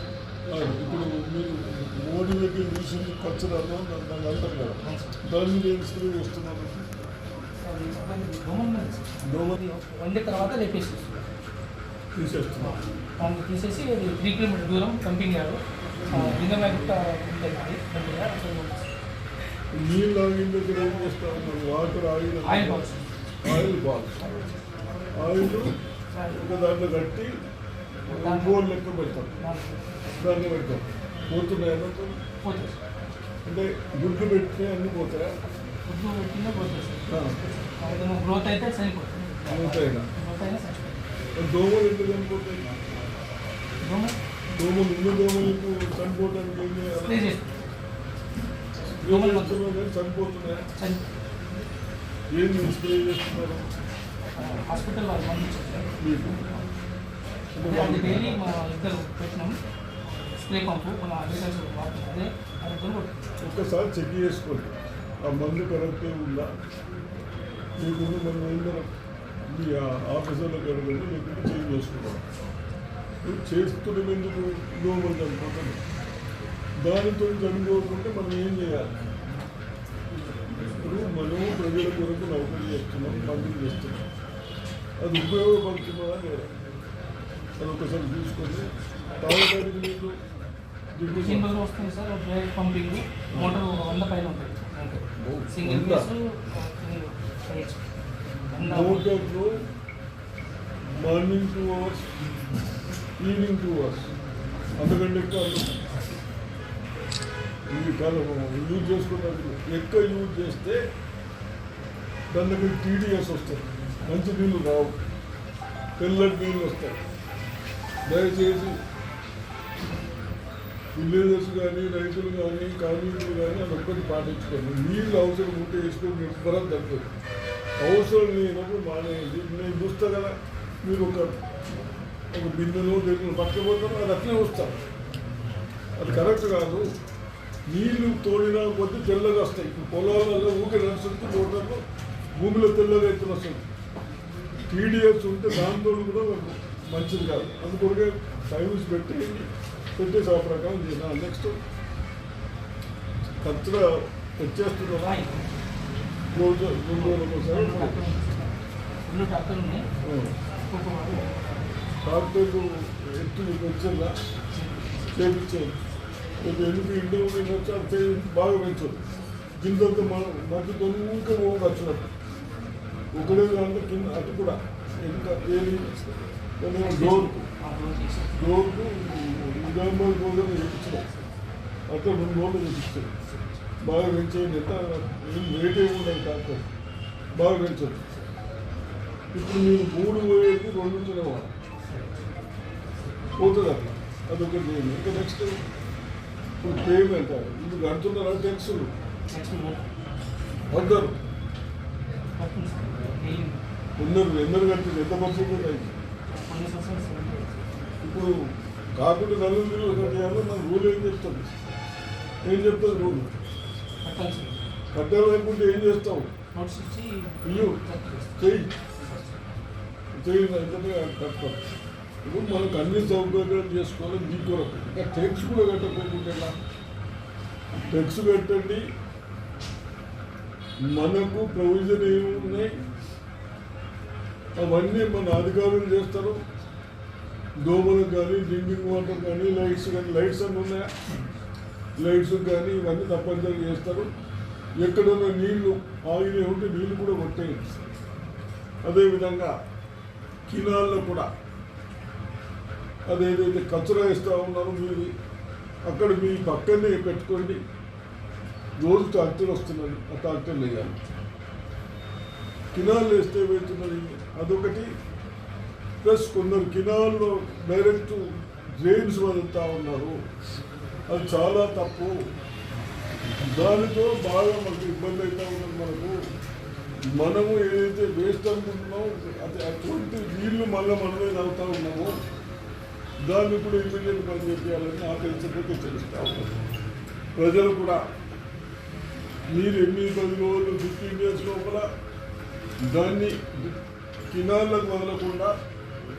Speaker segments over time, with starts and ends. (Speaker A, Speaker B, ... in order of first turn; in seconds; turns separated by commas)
Speaker A: 0.5-6.9, Speaker B: 4.8-5.2, Speaker B: 7.6-11.2, Speaker A: 9.2-9.6, Speaker A: 12.1-12.8, Speaker B: 12.6-18.9, Speaker A: 16.1-16.4, Speaker A: 19.7-22.9, Speaker B: 22.4-23.0, Speaker A: 23.4-24.2, Speaker B: 24.2-24.5, Speaker A: 25.1-25.8, Speaker B: 26.1-26.5, Speaker A: 26.3-27.3, Speaker B: 28.1-28.6, Speaker A: 28.1-29.3, Speaker B: 29.4-29.7, Speaker A: 30.2-32.1, Speaker B: 32.4-32.8, Speaker A: 33.5-35.4, Speaker B: 35.9-41.0, Speaker A: 37.1-37.4, Speaker A: 39.5-40.1, Speaker A: 41.4-42.7, Speaker B: 43.8-44.2, Speaker A: 44.5-47.2, Speaker B: 47.0-47.5, Speaker B: 49.0-49.6, Speaker A: 49.0-50.6, Speaker B: 50.7-51.0, Speaker A: 52.3-53.7, Speaker B: 54.3-55.9, Speaker A: 56.0-56.4, Speaker A: 57.5-58.4, Speaker B: 57.6-59.6, Speaker B: 60.4-63.2, Speaker A: 63.4-66.5, Speaker A: 67.8-68.9, Speaker A: 69.5-72.2, Speaker A: 73.2-75.8, Speaker A: 76.8-78.9, Speaker A: 80.7-84.0, Speaker A: 85.0-86.5, Speaker A: 87.6-90.2, Speaker A: 91.0-91.5, Speaker B: 91.1-97.8, Speaker A: 93.3-93.6, Speaker A: 95.2-96.1, Speaker B: 98.5-99.1, Speaker A: 98.6-99.6, Speaker A: 101.0-102.0, Speaker A: 103.2-104.1, Speaker A: 104.8-105.7, Speaker A: 107.7-110.8, Speaker A: 112.3-114.9, Speaker A: 116.0-117.0, Speaker A: 118.0-118.8, Speaker A: 120.9-127.1, Speaker A: 127.8-131.3, Speaker A: 132.3-134.8, Speaker A: 136.0-136.9, Speaker A: 137.7-141.8, Speaker A: 142.3-143.6, Speaker A: 144.7-151.6, Speaker A: 153.4-155.2, Speaker B: 155.0-155.5, Speaker A: 156.3-158.0, Speaker B: 156.9-159.9, Speaker A: 160.0-160.3, Speaker B: 160.6-161.7, Speaker A: 162.0-164.2, Speaker B: 164.5-164.9, Speaker A: 165.1-165.8, Speaker A: 166.4-169.0, Speaker A: 169.6-172.1, Speaker A: 173.1-175.9, Speaker A: 176.6-177.5, Speaker B: 176.7-178.4, Speaker A: 178.4-181.1, Speaker A: 181.9-183.1, Speaker A: 183.8-186.7, Speaker A: 187.3-188.0, Speaker A: 189.3-191.5, Speaker A: 193.4-195.6, Speaker A: 196.6-198.9, Speaker B: 199.3-199.9, Speaker A: 200.7-201.2, Speaker B: 202.3-203.6, Speaker A: 204.0-205.9, Speaker B: 206.3-207.6, Speaker A: 208.0-208.3, Speaker A: 208.9-211.5, Speaker A: 212.4-213.3, Speaker B: 214.0-214.7, Speaker A: 214.9-216.3, Speaker B: 216.5-219.4, Speaker A: 217.4-217.8, Speaker A: 218.4-218.7, Speaker A: 220.2-221.6, Speaker A: 222.2-226.6, Speaker A: 227.9-228.8, Speaker A: 230.8-232.7, Speaker A: 234.6-236.4, Speaker A: 237.6-240.9, Speaker A: 242.0-244.1, Speaker A: 244.8-247.6, Speaker A: 248.8-249.5, Speaker A: 250.5-251.3, Speaker A: 253.1-255.1, Speaker A: 255.8-257.6, Speaker A: 258.8-260.9, Speaker A: 262.7-264.9, Speaker A: 266.0-268.2, Speaker A: 268.8-270.2, Speaker A: 271.1-272.1, Speaker A: 273.4-276.1, Speaker A: 277.1-282.1, Speaker A: 283.2-286.5, Speaker A: 287.4-288.0, Speaker A: 289.5-291.9, Speaker A: 292.9-293.8, Speaker A: 294.3-295.5